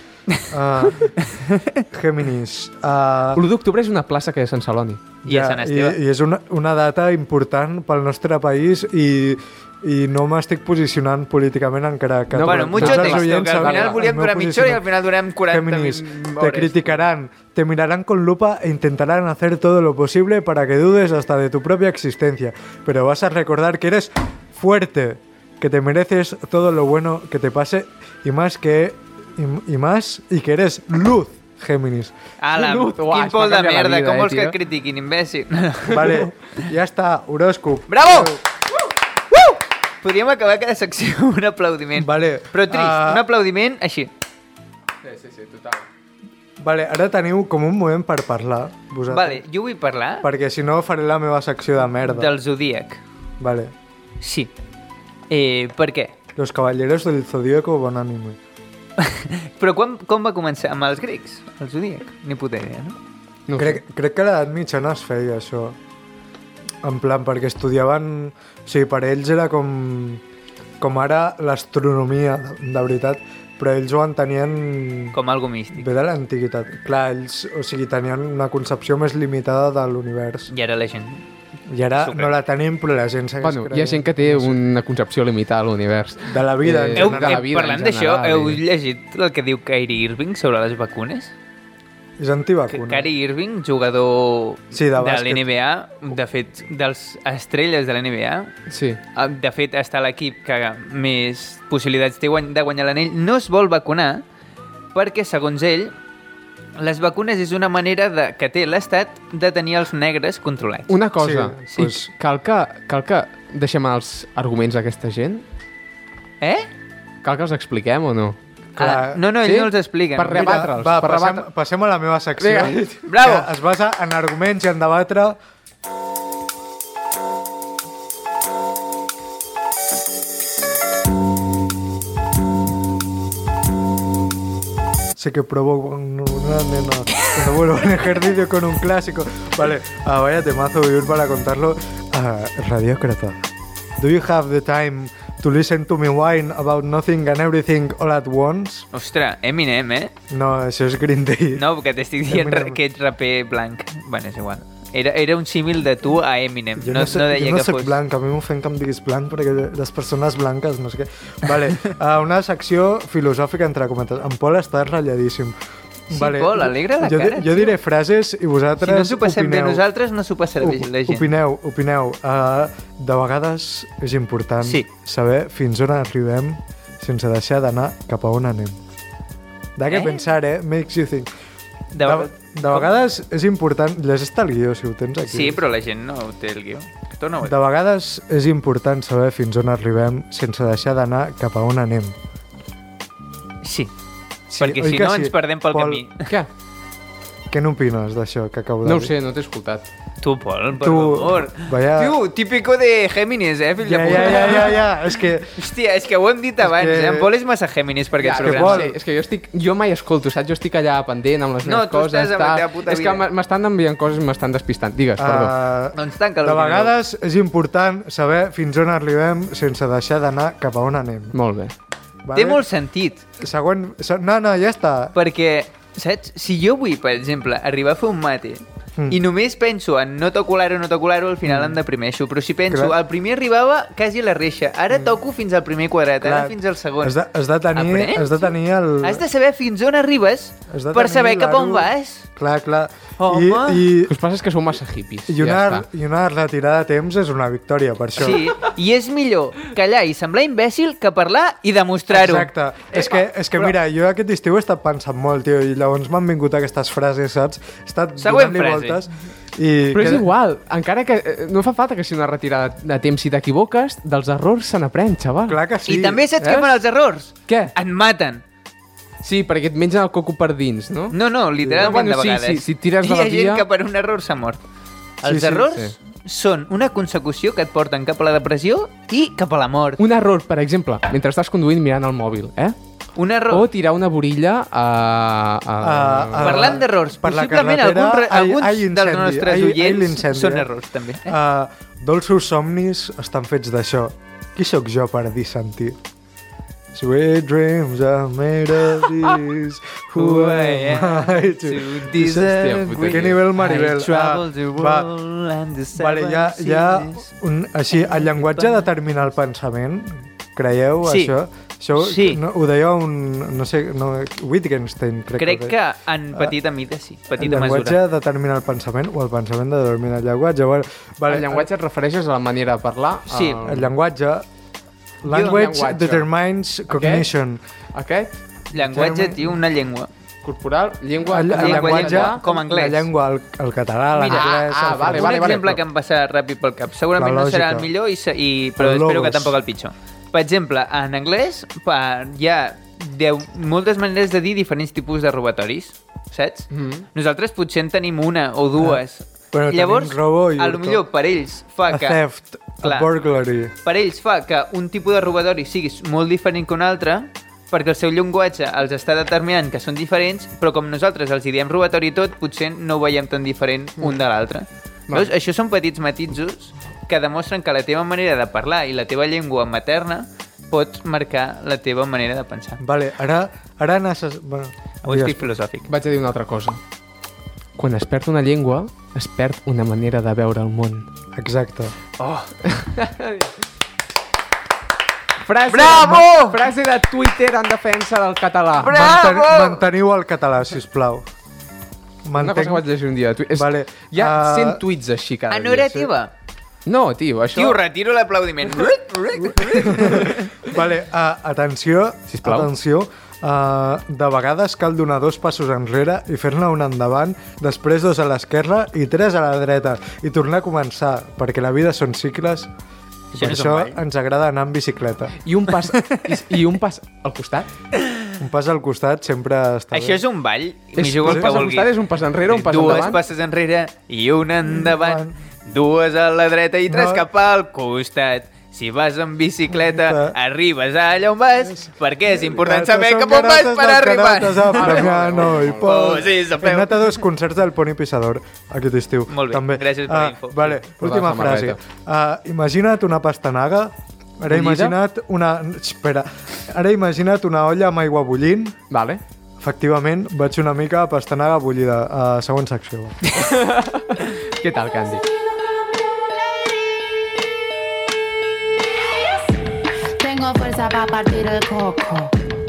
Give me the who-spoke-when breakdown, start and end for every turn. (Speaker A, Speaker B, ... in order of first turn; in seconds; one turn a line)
Speaker A: 0.5-1.1
Speaker B: 1.0-1.8
Speaker A: 1.9-3.4
Speaker C: 3.4-5.0
Speaker B: 5.2-6.0
Speaker A: 5.2-14.8
Speaker C: 12.3-14.1
Speaker B: 12.4-17.0
Speaker A: 15.5-32.1
Speaker B: 32.4-36.6
Speaker C: 32.5-34.6
Speaker A: 35.9-38.4
Speaker B: 37.9-38.4
Speaker B: 39.3-44.1
Speaker A: 42.0-43.2
Speaker C: 45.0-45.9
Speaker A: 46.6-49.4
Speaker B: 49.1-50.3
Speaker A: 50.2-52.3
Speaker B: 52.0-53.0
Speaker A: 53.4-53.7
Speaker B: 54.2-54.5
Speaker B: 55.3-56.1
Speaker A: 56.4-58.4
Speaker B: 59.0-63.0
Speaker C: 63.5-63.8
Speaker A: 63.6-65.8
Speaker A: 66.8-70.2
Speaker A: 70.8-75.2
Speaker B: 75.1-75.9
Speaker A: 75.8-80.5
Speaker B: 80.5-81.3
Speaker A: 81.7-84.6
Speaker B: 81.9-82.4
Speaker C: 83.4-88.6
Speaker A: 86.2-87.4
Speaker B: 87.0-91.3
Speaker A: 92.2-93.1
Speaker B: 92.7-98.5
Speaker A: 94.7-95.5
Speaker C: 98.7-99.0
Speaker B: 99.2-104.2
Speaker B: 104.9-105.9
Speaker B: 106.8-111.0
Speaker C: 110.9-115.4
Speaker A: 111.2-112.1
Speaker B: 116.4-116.7
Speaker C: 117.2-118.4
Speaker B: 118.8-120.6
Speaker A: 118.8-119.2
Speaker C: 119.4-121.5
Speaker A: 120.3-125.4
Speaker C: 122.4-123.1
Speaker B: 123.1-123.5
Speaker A: 135.2-143.4
Speaker A: 144.0-148.9
Speaker B: 148.9-150.1
Speaker A: 150.3-151.6
Speaker B: 151.6-158.0
Speaker A: 152.3-152.8
Speaker A: 156.8-165.6
Speaker B: 166.1-167.8
Speaker A: 166.1-169.8
Speaker B: 168.8-171.3
Speaker A: 170.6-178.8
Speaker A: 179.8-181.3
Speaker B: 179.9-180.2
Speaker B: 181.9-182.9
Speaker A: 182.0-185.6
Speaker B: 185.2-187.6
Speaker A: 187.4-192.2
Speaker B: 193.6-193.9
Speaker A: 194.5-196.0
Speaker B: 194.6-196.3
Speaker A: 197.5-199.1
Speaker C: 198.8-199.9
Speaker B: 200.2-204.9
Speaker A: 200.8-202.2
Speaker A: 203.8-205.6
Speaker B: 205.5-208.9
Speaker A: 206.6-207.3
Speaker C: 208.2-215.5
Speaker A: 208.4-209.0
Speaker B: 211.6-213.2
Speaker A: 215.2-221.3
Speaker B: 215.9-216.9
Speaker C: 221.3-221.7
Speaker A: 222.2-222.6
Speaker B: 222.3-223.2
Speaker A: 223.4-225.2
Speaker B: 225.2-237.2
Speaker A: 232.7-233.0
Speaker A: 236.2-239.2
Speaker B: 237.7-242.3
Speaker A: 240.7-244.1
Speaker B: 243.2-243.9
Speaker C: 244.1-245.9
Speaker A: 245.3-248.4
Speaker B: 248.2-252.5
Speaker A: 252.1-260.3
Speaker B: 258.2-259.0
Speaker C: 259.9-265.6
Speaker A: 265.5-266.3
Speaker B: 265.9-268.4
Speaker C: 266.4-266.8
Speaker C: 267.5-267.7
Speaker C: 269.2-273.7
Speaker B: 271.1-274.6
Speaker B: 275.2-280.0
Speaker A: 275.2-275.7
Speaker C: 280.0-282.8
Speaker B: 283.2-283.7
Speaker C: 283.5-286.8
Speaker A: 285.8-290.7
Speaker B: 286.4-291.4
Speaker A: 291.3-296.0
Speaker A: 296.9-305.1
Speaker B: 300.1-307.3
Speaker C: 302.4-303.4
Speaker A: 306.0-315.8
Speaker B: 308.0-308.8
Speaker B: 311.1-311.3
Speaker B: 312.0-312.4
Speaker B: 315.4-318.0
Speaker A: 317.4-321.7
Speaker C: 321.3-323.9
Speaker B: 323.3-323.6
Speaker A: 323.6-324.4
Speaker A: 325.2-327.6
Speaker B: 325.3-325.6
Speaker C: 325.3-326.3
Speaker C: 326.9-327.3
Speaker C: 327.9-328.3
Speaker B: 328.7-330.1
Speaker A: 328.8-329.6
Speaker C: 330.4-332.4
Speaker A: 331.3-335.6
Speaker B: 331.5-333.1
Speaker B: 334.1-352.2
Speaker C: 334.3-335.8
Speaker A: 337.2-337.9
Speaker A: 338.8-339.6
Speaker C: 346.7-347.1
Speaker A: 349.5-351.0
Speaker A: 351.9-353.7
Speaker B: 352.8-353.1
Speaker B: 353.8-372.8
Speaker A: 372.8-375.5
Speaker B: 375.0-375.9
Speaker C: 375.9-376.8
Speaker C: 377.8-381.1
Speaker A: 381.3-381.9
Speaker B: 382.2-382.6
Speaker C: 382.6-383.5
Speaker C: 385.4-389.0
Speaker B: 385.7-386.6
Speaker B: 388.8-389.9
Speaker A: 388.9-391.3
Speaker A: 392.2-392.9
Speaker C: 392.4-396.0
Speaker A: 393.6-394.8
Speaker B: 395.5-396.3
Speaker C: 396.9-397.8
Speaker B: 397.5-400.6
Speaker A: 399.4-412.7
Speaker C: 402.3-402.7
Speaker B: 413.3-414.0
Speaker A: 413.3-415.4
Speaker C: 415.4-417.7
Speaker B: 415.9-416.2
Speaker A: 418.4-420.2
Speaker B: 419.9-421.9
Speaker C: 421.0-423.2
Speaker B: 422.5-437.2
Speaker A: 424.7-425.4
Speaker A: 426.9-427.3
Speaker A: 429.7-430.4
Speaker A: 432.4-448.8
Speaker C: 434.7-436.0
Speaker B: 439.3-440.8
Speaker C: 441.0-441.8
Speaker C: 444.5-445.0
Speaker C: 448.9-449.2
Speaker A: 449.6-453.3
Speaker C: 453.3-455.2
Speaker D: 460.2-462.3